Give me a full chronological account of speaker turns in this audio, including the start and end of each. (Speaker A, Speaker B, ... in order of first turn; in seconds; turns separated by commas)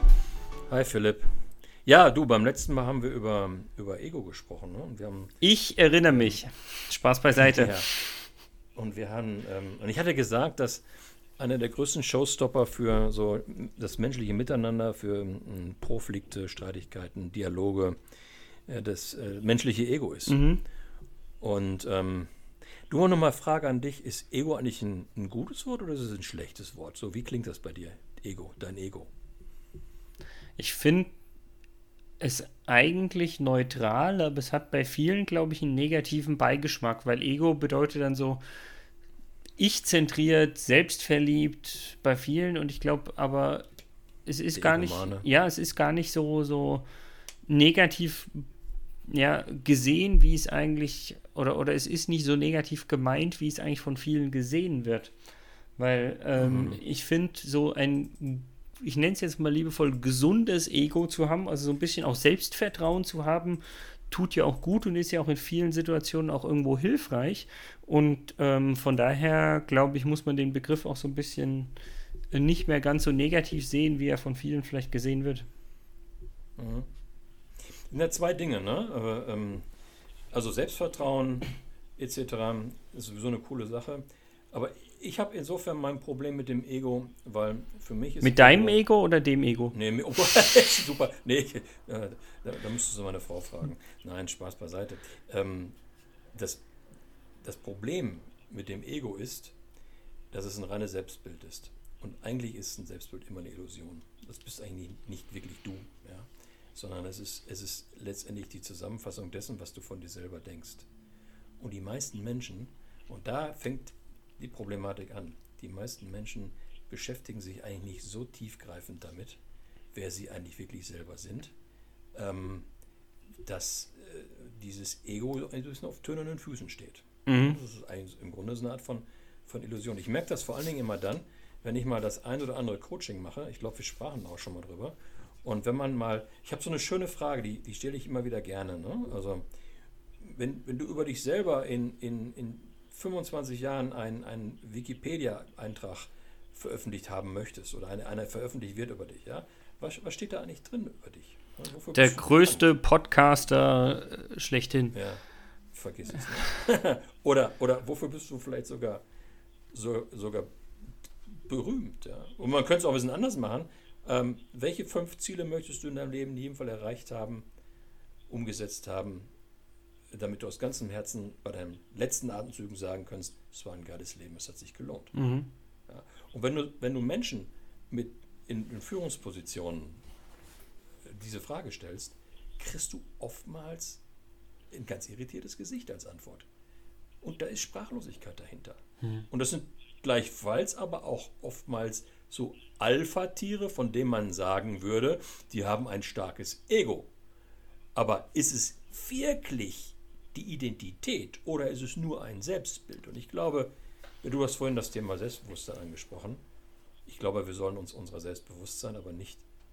Speaker A: 0.7-5.3, Speaker B: 5.4-7.8, Speaker A: 7.4-7.9, Speaker A: 8.7-10.8, Speaker A: 11.4-18.0, Speaker A: 18.7-20.4, Speaker B: 20.3-20.6, Speaker A: 21.4-22.3, Speaker A: 22.9-29.1, Speaker B: 30.6-31.1, Speaker B: 32.2-38.4, Speaker B: 39.6-43.6, Speaker B: 44.2-46.8, Speaker A: 44.5-45.3, Speaker B: 47.5-48.3, Speaker B: 49.1-55.1, Speaker B: 55.8-71.7, Speaker A: 56.4-56.8, Speaker B: 72.3-75.5, Speaker A: 76.6-76.9, Speaker A: 77.7-79.7, Speaker A: 80.3-88.8, Speaker B: 88.2-89.7, Speaker A: 89.7-95.8, Speaker A: 96.3-96.6, Speaker A: 97.4-99.5, Speaker A: 100.3-110.9, Speaker A: 111.6-119.4, Speaker A: 119.9-121.5, Speaker A: 122.1-122.7, Speaker A: 123.4-139.4, Speaker B: 127.3-127.6, Speaker A: 140.2-152.7, Speaker B: 151.9-154.9, Speaker A: 154.9-159.0, Speaker A: 159.7-160.5, Speaker A: 161.2-167.5, Speaker A: 168.3-169.3, Speaker A: 170.1-175.1, Speaker B: 175.1-175.5, Speaker A: 175.9-180.0, Speaker A: 181.0-184.0, Speaker A: 184.7-186.5, Speaker A: 187.2-197.1, Speaker A: 197.9-203.7, Speaker A: 204.2-206.4, Speaker A: 207.0-209.4